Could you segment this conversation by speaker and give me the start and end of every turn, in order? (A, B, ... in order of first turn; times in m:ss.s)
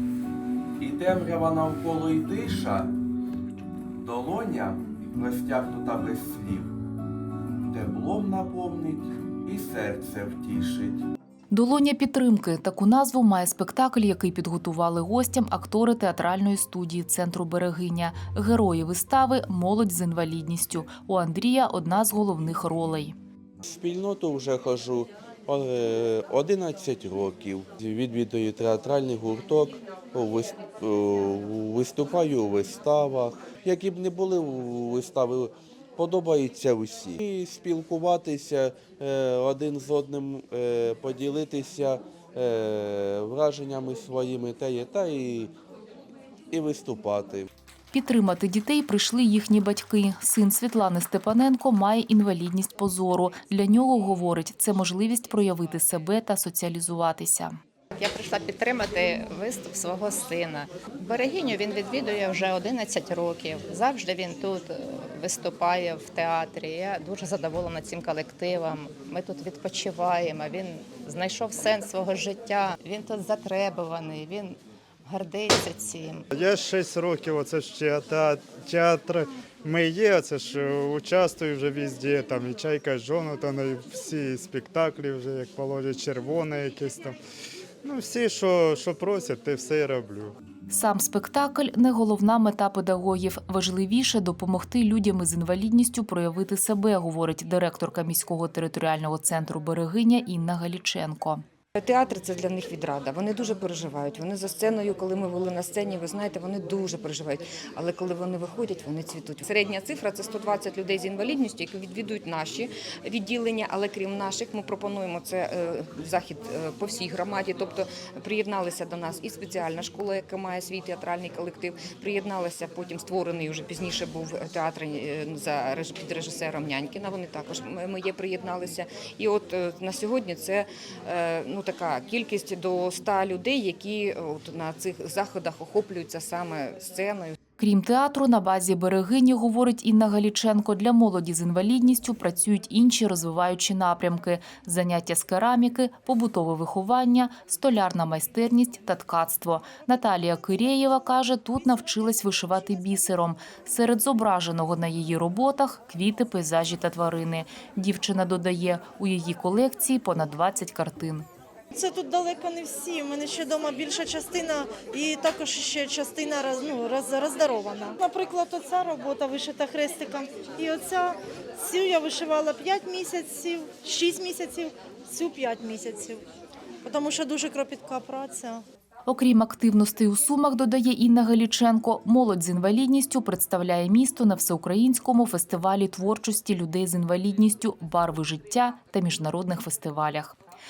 0:00.8-0:02.9 A
0:04.0-0:06.7 A
0:07.6-0:11.0 A
0:11.5-0:23.2 B
0:23.6-0:45.5 A
0:46.5-0:47.5 A
0:47.9-0:57.6 B
0:58.0-1:16.2 C
1:16.3-1:27.2 D
1:27.8-1:30.4 D
1:30.7-1:41.4 B
1:41.8-2:17.4 E
2:17.6-2:41.3 B
2:41.7-2:56.2 F
2:56.8-2:58.6 F
2:59.1-3:10.4 B